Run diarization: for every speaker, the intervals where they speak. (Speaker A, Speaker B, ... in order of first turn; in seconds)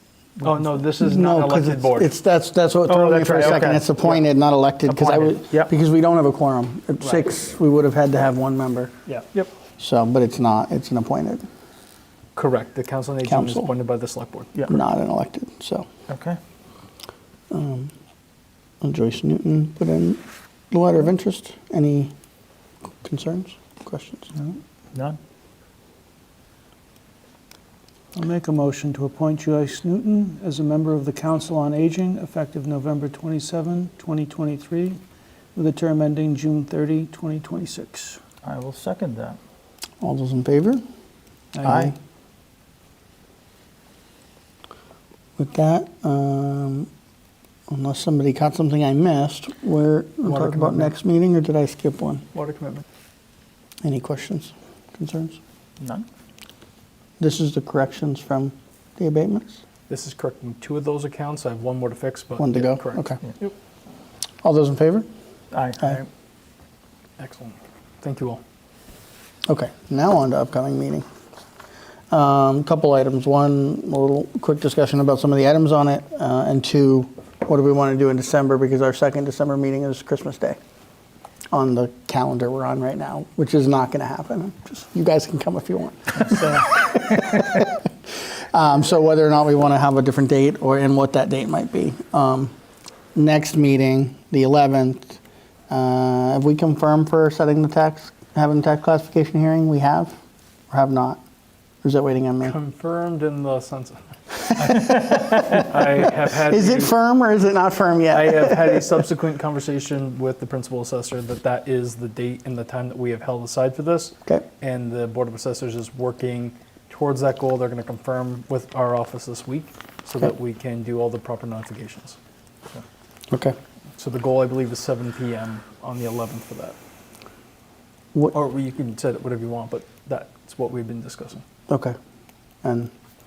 Speaker A: 0.4-2.1, 12.4-14.5, 50.3-50.9, 52.3-52.9, 59.9-63.5, 67.2-68.4, 102.4-106.9, 108.1-122.2, 124.0-126.8, 128.3-131.4
Speaker B: 1.0-8.9, 9.8-11.4, 13.2-13.7, 14.7-15.9, 17.5-17.9, 18.8-22.1, 23.0-24.3, 40.0-40.8, 41.6-41.9, 45.4-46.9, 47.7-52.2, 53.8-55.4, 57.2-59.6, 62.4-63.2, 64.4-65.1, 69.5-71.0, 72.1-80.6, 81.5-92.5, 93.2-100.1, 100.7-101.2, 101.8-102.6, 104.6-108.9, 123.3-123.6, 131.7-131.9, 132.6-132.9
Speaker C: 2.9-3.9, 4.9-5.7, 16.1-16.4, 24.9-25.2, 38.4-39.4, 41.6-41.9, 55.8-56.1, 65.5-66.1
Speaker D: 28.1-35.0, 35.5-38.2, 41.6-41.9